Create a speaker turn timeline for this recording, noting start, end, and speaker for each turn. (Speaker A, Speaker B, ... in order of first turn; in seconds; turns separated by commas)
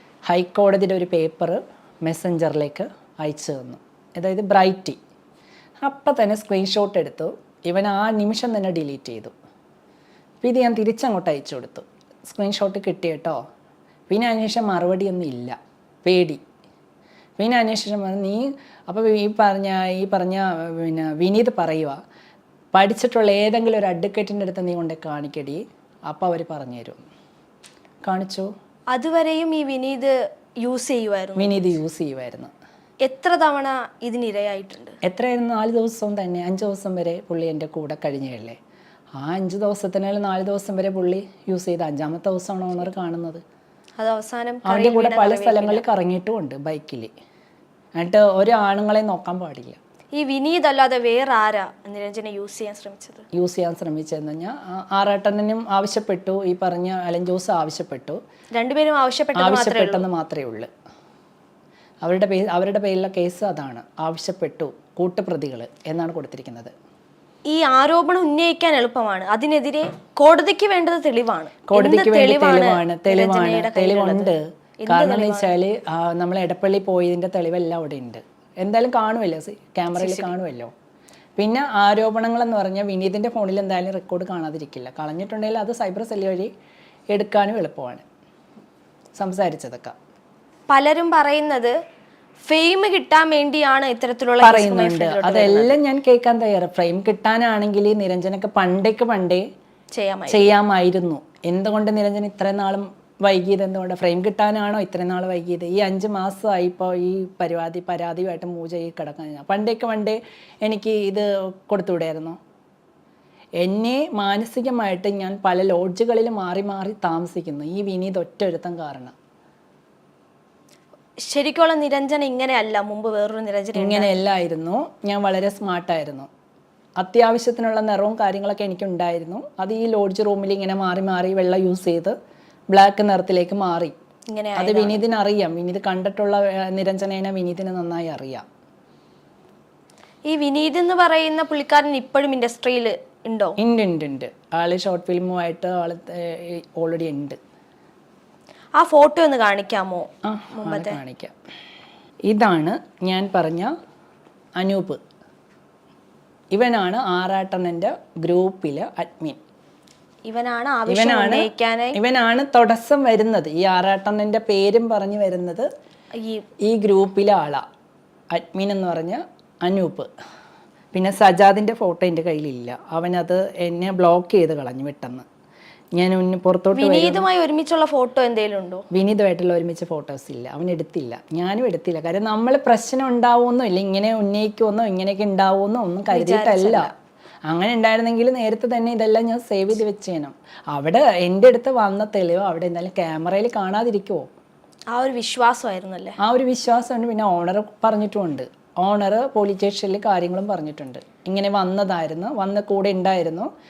Speaker A: 0.3-5.0, Speaker A: 5.8-9.3, Speaker A: 10.4-13.4, Speaker A: 14.1-16.4, Speaker A: 17.4-22.0, Speaker A: 22.7-27.0, Speaker A: 28.0-28.5, Speaker B: 28.9-31.7, Speaker A: 31.4-32.5, Speaker B: 33.0-34.9, Speaker A: 35.0-38.6, Speaker A: 39.2-43.4, Speaker B: 44.0-45.8, Speaker A: 44.6-47.1, Speaker A: 48.0-49.8, Speaker B: 50.1-53.2, Speaker A: 53.3-58.2, Speaker B: 58.5-60.0, Speaker A: 59.4-60.7, Speaker A: 62.0-66.7, Speaker B: 67.5-75.6, Speaker A: 71.7-80.7, Speaker B: 80.0-80.3, Speaker A: 81.4-86.5, Speaker A: 87.1-88.0, Speaker A: 89.2-90.0, Speaker B: 90.7-91.7, Speaker B: 92.5-95.8, Speaker A: 94.4-99.4, Speaker B: 99.9-100.5, Speaker A: 100.3-112.4, Speaker A: 113.6-119.1, Speaker B: 121.2-124.1, Speaker A: 123.8-126.3, Speaker A: 127.0-132.2, Speaker A: 132.7-133.9, Speaker B: 134.3-135.0, Speaker A: 134.6-138.4, Speaker B: 140.3-143.6, Speaker A: 143.6-147.4, Speaker B: 148.8-151.0, Speaker A: 150.2-151.3, Speaker A: 152.3-153.7, Speaker A: 154.6-155.0, Speaker A: 156.5-159.4, Speaker B: 160.3-162.0, Speaker A: 160.9-165.7, Speaker B: 166.2-166.4, Speaker A: 166.6-167.6, Speaker A: 168.3-170.1, Speaker A: 170.9-175.2, Speaker A: 175.9-177.2, Speaker B: 176.8-178.8, Speaker A: 178.9-186.9, Speaker B: 186.1-186.9, Speaker A: 187.5-194.3, Speaker B: 194.9-196.2, Speaker A: 196.2-203.5